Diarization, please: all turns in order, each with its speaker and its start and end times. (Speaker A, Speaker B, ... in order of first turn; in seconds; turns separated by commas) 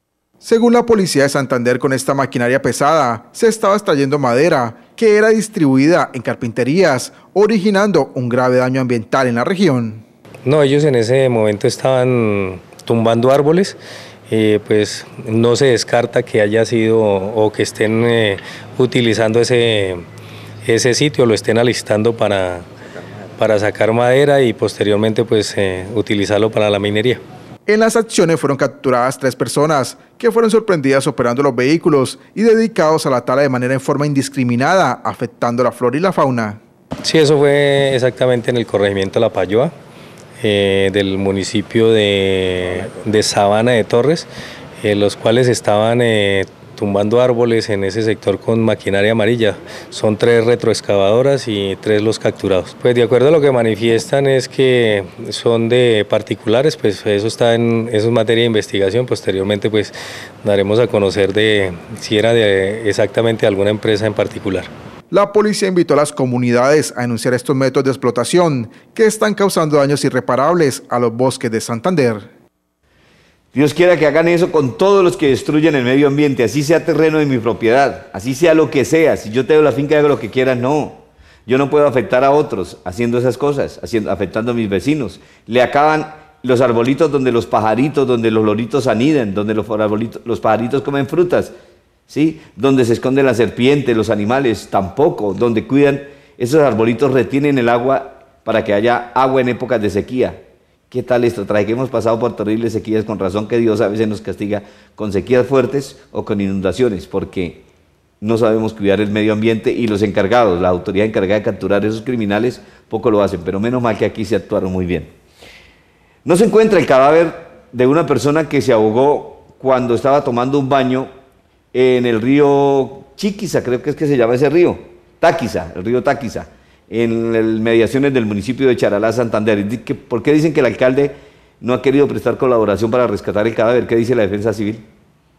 Speaker A: 0.4-10.0, Speaker B: 10.4-13.8, Speaker B: 14.3-20.0, Speaker B: 20.6-22.6, Speaker B: 23.4-27.2, Speaker A: 27.7-36.6, Speaker B: 37.0-39.7, Speaker B: 40.4-44.3, Speaker B: 44.8-64.7, Speaker A: 65.1-72.3, Speaker C: 73.5-91.5, Speaker C: 92.1-100.4, Speaker C: 100.9-107.6, Speaker C: 108.2-115.1, Speaker C: 116.2-121.1, Speaker C: 121.7-134.8